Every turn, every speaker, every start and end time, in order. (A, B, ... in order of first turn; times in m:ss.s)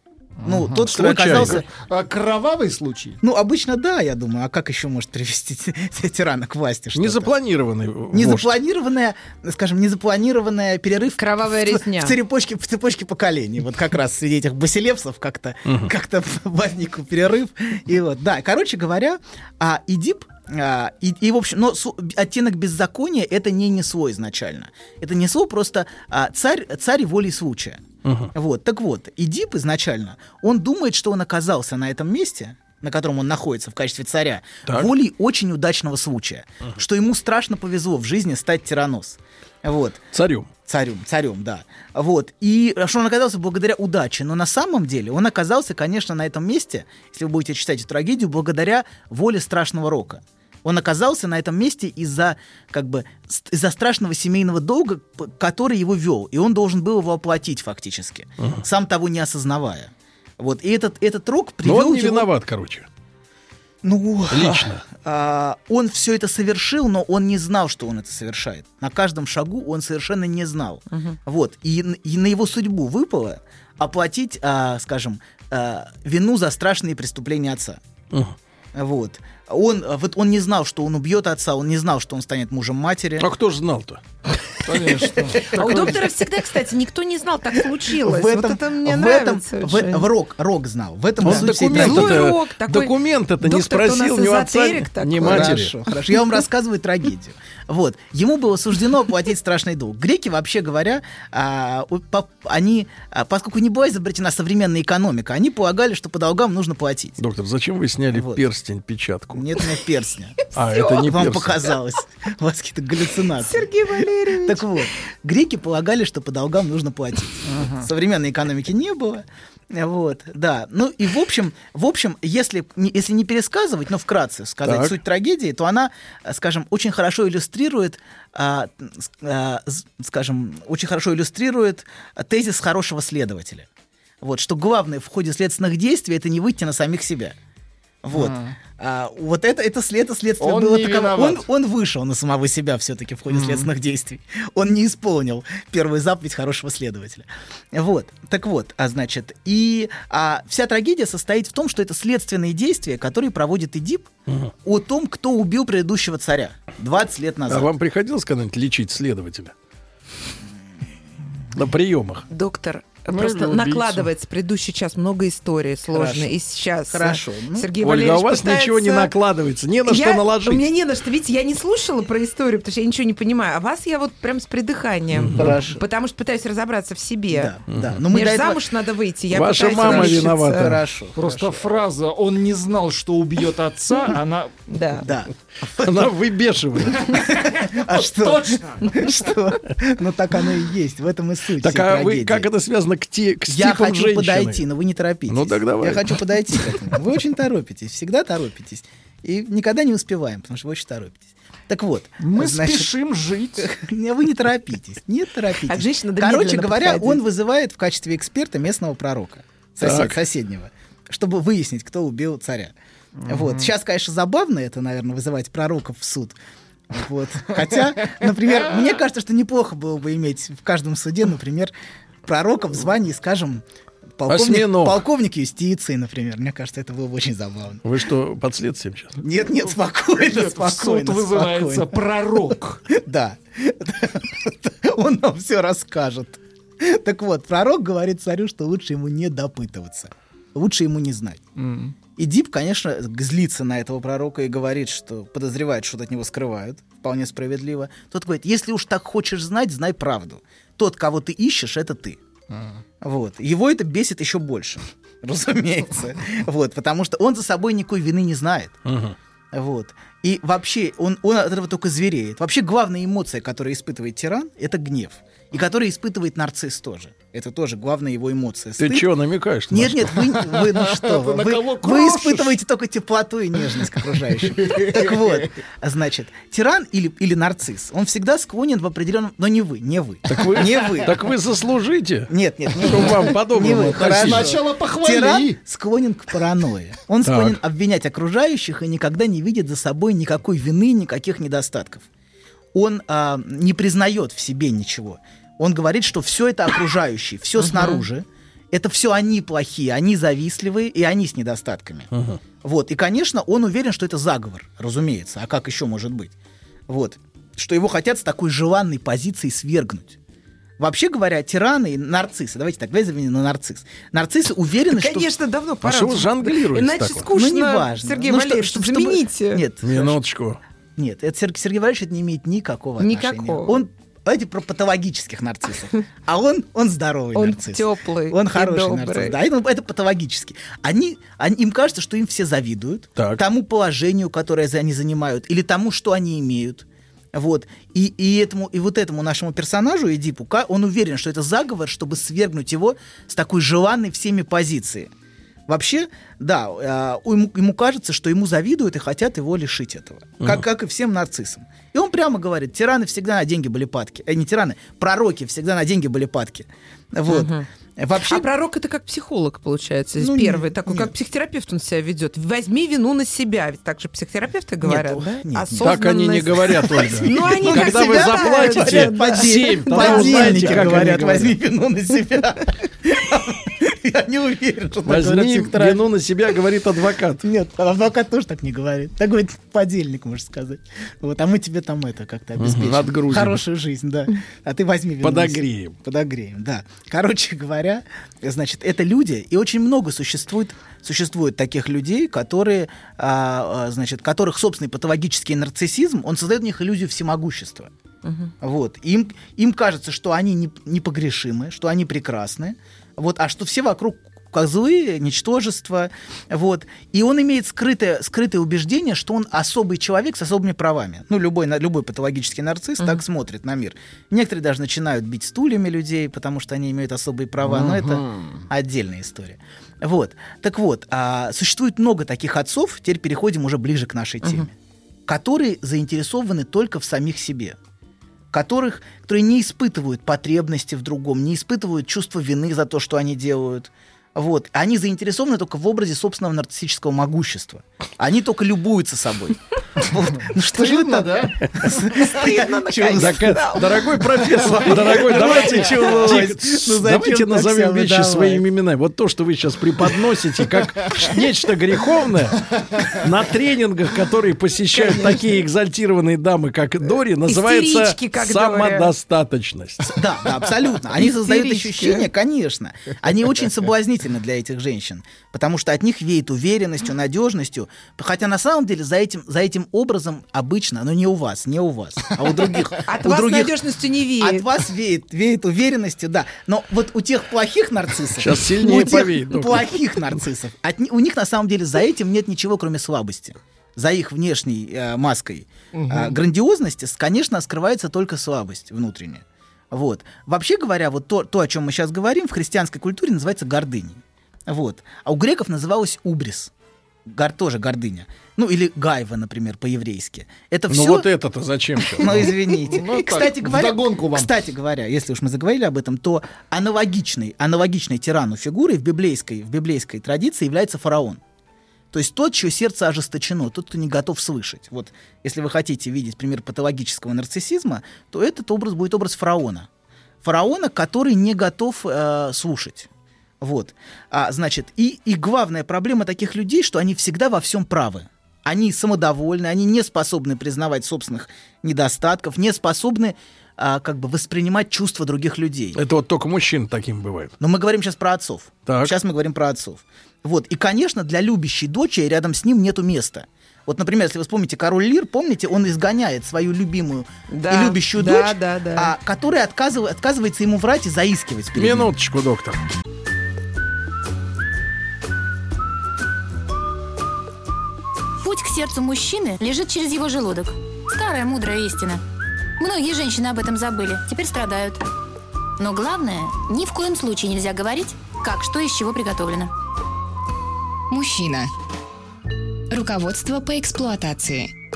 0:00.4-0:03.2 A
0:00.4-0:01.7 B
0:00.9-0:01.6 C
0:03.2-0:07.4 B
0:07.0-0:08.6 C
0:08.1-0:40.0 B
0:11.2-0:12.2 D
0:15.7-0:15.9 C
0:28.0-0:28.3 C
0:40.1-0:40.5 C
0:40.7-1:02.3 B
1:01.6-1:02.9 C
1:03.8-1:17.8 B
1:04.3-1:04.8 C
1:10.9-1:11.2 D
1:18.8-1:23.3 B
1:23.2-1:24.0 C
1:24.6-1:25.4 C
1:24.8-1:26.1 B
1:25.2-1:25.9 A
1:25.5-1:30.1 D
1:27.9-1:32.3 B
1:31.2-1:35.5 D
1:31.2-1:35.7 C
1:35.2-1:47.2 B
1:47.2-1:49.5 C
1:48.1-1:48.4 B
1:49.3-2:13.7 B
1:50.5-1:51.8 C
1:53.4-1:54.7 D
1:57.5-1:57.8 A
2:04.6-2:04.9 C
2:14.2-2:17.4 B
2:18.0-2:34.1 B
2:18.1-2:18.6 A
2:20.4-2:21.4 A
2:23.3-2:23.7 A
2:34.3-2:34.5 C
2:34.6-2:37.7 B
2:37.5-2:39.5 C
2:41.5-2:42.2 C
2:42.3-2:49.1 D
2:43.1-2:44.1 A
2:45.9-2:47.7 B
2:47.8-2:50.7 C
2:49.9-2:57.5 D
2:55.2-2:55.6 C
2:55.4-2:55.8 B
2:57.3-2:58.6 B
2:57.7-2:58.0 C
2:58.1-3:00.7 D
2:59.3-3:00.8 C
2:59.7-3:01.7 B
3:01.2-3:04.6 A
3:04.7-3:05.0 D
3:05.0-3:06.1 B
3:05.8-3:07.0 C
3:07.0-3:09.2 A
3:07.0-3:12.5 B
3:11.6-3:14.6 C
3:13.5-3:22.9 B
3:15.3-3:16.8 C
3:22.2-3:23.7 A
3:23.6-3:32.8 B
3:25.7-3:27.2 D
3:29.8-3:30.2 C
3:33.2-3:33.7 A
3:33.3-3:36.4 B
3:36.9-3:41.7 B
3:42.2-3:43.6 B
3:44.2-3:47.8 B
3:44.3-3:45.0 C
3:47.8-3:49.2 C
3:49.2-3:52.0 B
3:50.2-3:52.9 A
3:52.9-4:01.4 B
4:01.6-4:02.0 A
4:02.2-4:12.2 B
4:12.5-4:12.8 A
4:13.0-4:18.8 B
4:18.9-4:19.2 C
4:19.5-4:29.1 B
4:28.8-4:30.2 C
4:29.7-4:41.2 B
4:30.4-4:32.6 A
4:34.4-4:35.5 A
4:40.3-4:44.5 C
4:42.3-4:52.0 B
4:44.0-4:45.6 A
4:47.2-4:47.6 C
4:52.7-5:02.1 B
4:57.6-4:58.0 D
5:02.1-5:02.4 C
5:02.6-5:06.4 B
5:06.9-5:10.2 B
5:10.8-5:15.3 B
5:14.9-5:19.6 D
5:15.8-5:17.3 C
5:17.3-5:20.2 B
5:19.8-5:20.6 C
5:21.0-5:45.1 B
5:23.0-5:23.8 D
5:27.3-5:29.4 D
5:45.7-5:58.5 B
5:57.3-6:11.0 D
6:00.2-6:01.1 B
6:04.8-6:06.0 B
6:05.8-6:11.5 C
6:06.6-6:16.0 B
6:15.1-6:17.4 C
6:17.4-6:37.9 B
6:22.6-6:23.6 C
6:25.2-6:26.0 C
6:38.2-6:38.5 D
6:38.6-7:04.7 B
6:57.6-6:58.6 A
7:05.3-7:07.8 B
7:08.5-7:28.6 B
7:20.7-7:21.7 A
7:22.0-7:23.9 D
7:23.1-7:40.2 C
7:34.9-7:35.4 D
7:37.5-7:39.1 D
7:40.1-7:53.8 B
7:41.2-7:42.3 D
7:53.1-7:54.7 D
7:54.4-8:16.7 B
7:58.4-8:00.0 C
8:05.9-8:06.4 A
8:17.3-8:21.3 B
8:20.9-8:22.5 C
8:22.2-8:31.4 B
8:22.4-8:24.5 A
8:32.1-8:39.9 B
8:40.4-8:43.1 B
8:43.6-8:56.0 B
8:56.0-8:57.5 C
8:57.6-9:12.1 B
8:58.9-8:59.1 C
9:07.5-9:09.1 D
9:11.8-9:12.8 C
9:18.4-9:22.2 E
9:22.8-9:25.1 E
9:25.8-9:29.7 E
9:31.1-9:31.7 F
9:32.9-9:34.7 F